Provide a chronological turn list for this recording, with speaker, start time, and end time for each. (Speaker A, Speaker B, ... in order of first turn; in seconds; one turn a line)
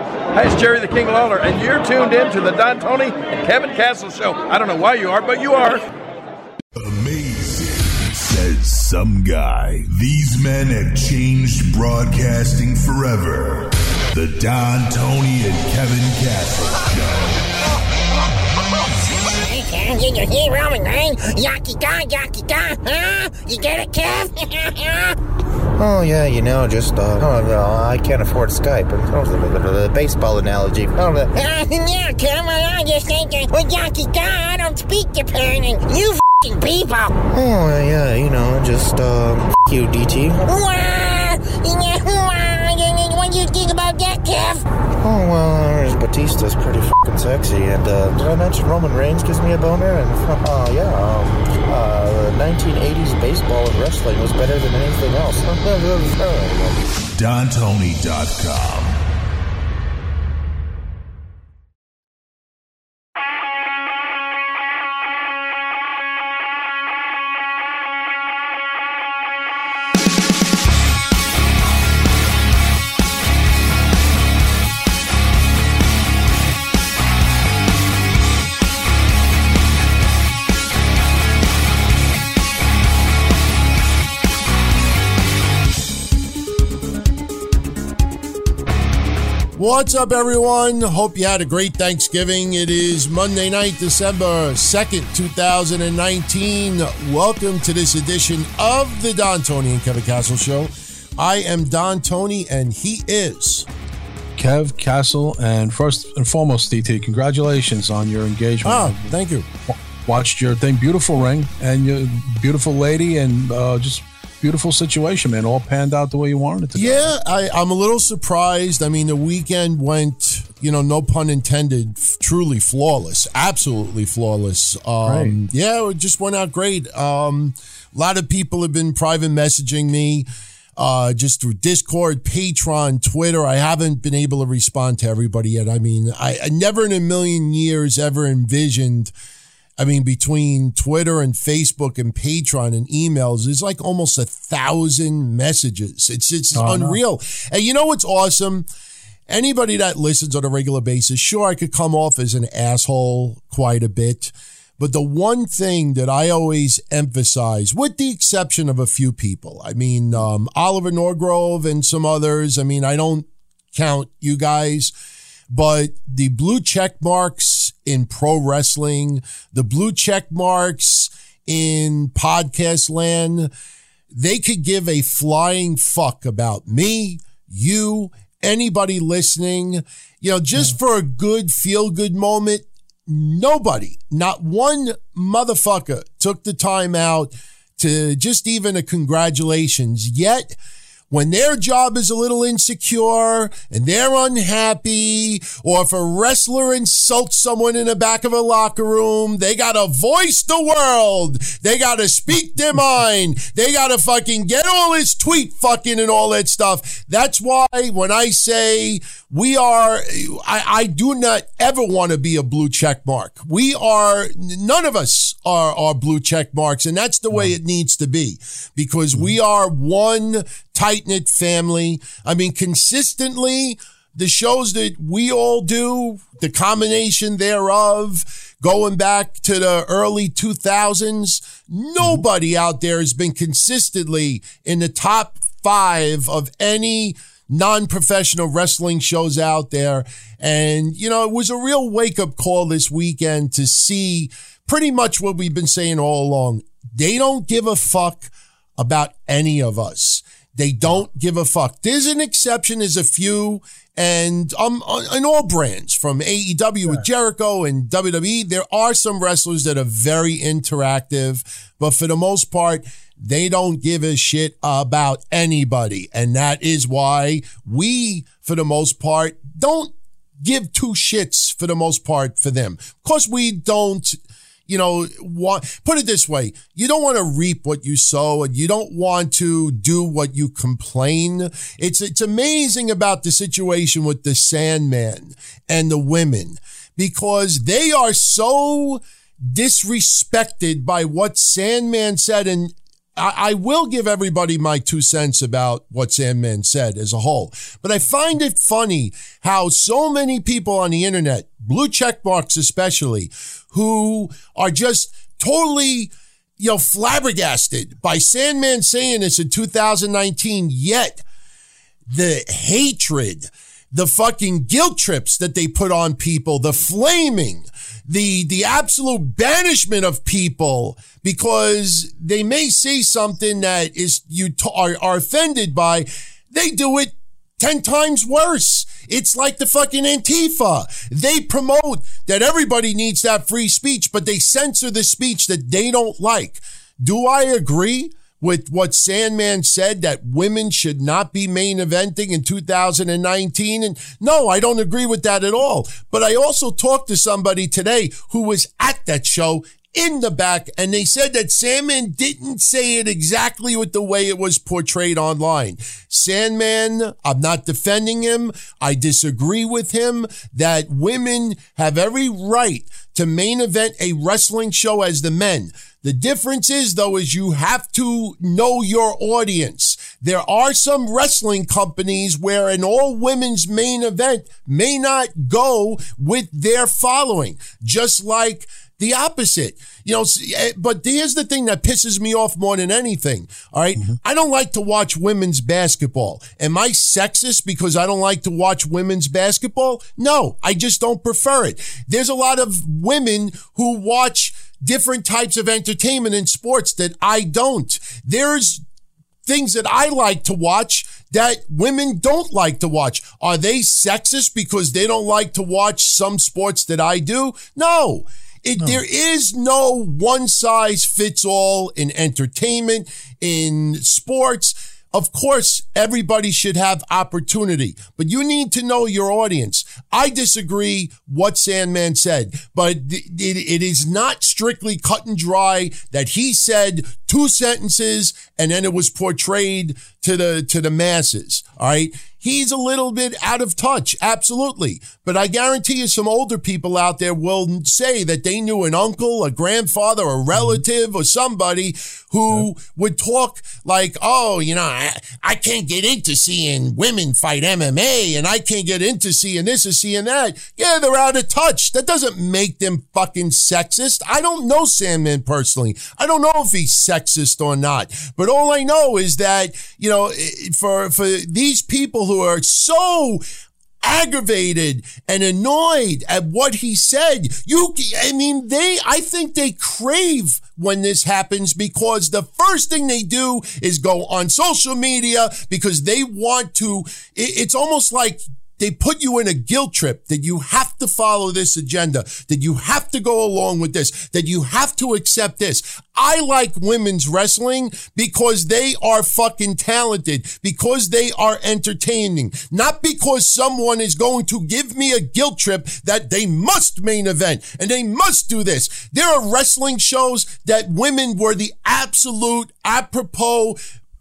Speaker A: 0.3-5.8
Speaker B: 6.8-17.4
Speaker C: 19.4-25.1
Speaker D: 25.8-31.3
Speaker C: 31.4-37.1
Speaker D: 37.3-40.5
Speaker C: 40.5-44.6
Speaker D: 45.0-56.8
Speaker B: 57.1-59.0
Speaker E: 89.5-103.7
Speaker F: 104.3-109.1
Speaker E: 108.6-109.5
Speaker F: 109.7-117.1
Speaker E: 116.7-139.1
Speaker F: 125.0-125.4
Speaker E: 139.8-148.7
Speaker F: 146.5-147.0
Speaker E: 149.3-164.9
Speaker E: 165.5-173.5
Speaker E: 174.1-190.5
Speaker E: 191.1-311.2
Speaker E: 312.1-398.8
Speaker E: 399.5-463.4
Speaker E: 464.0-503.8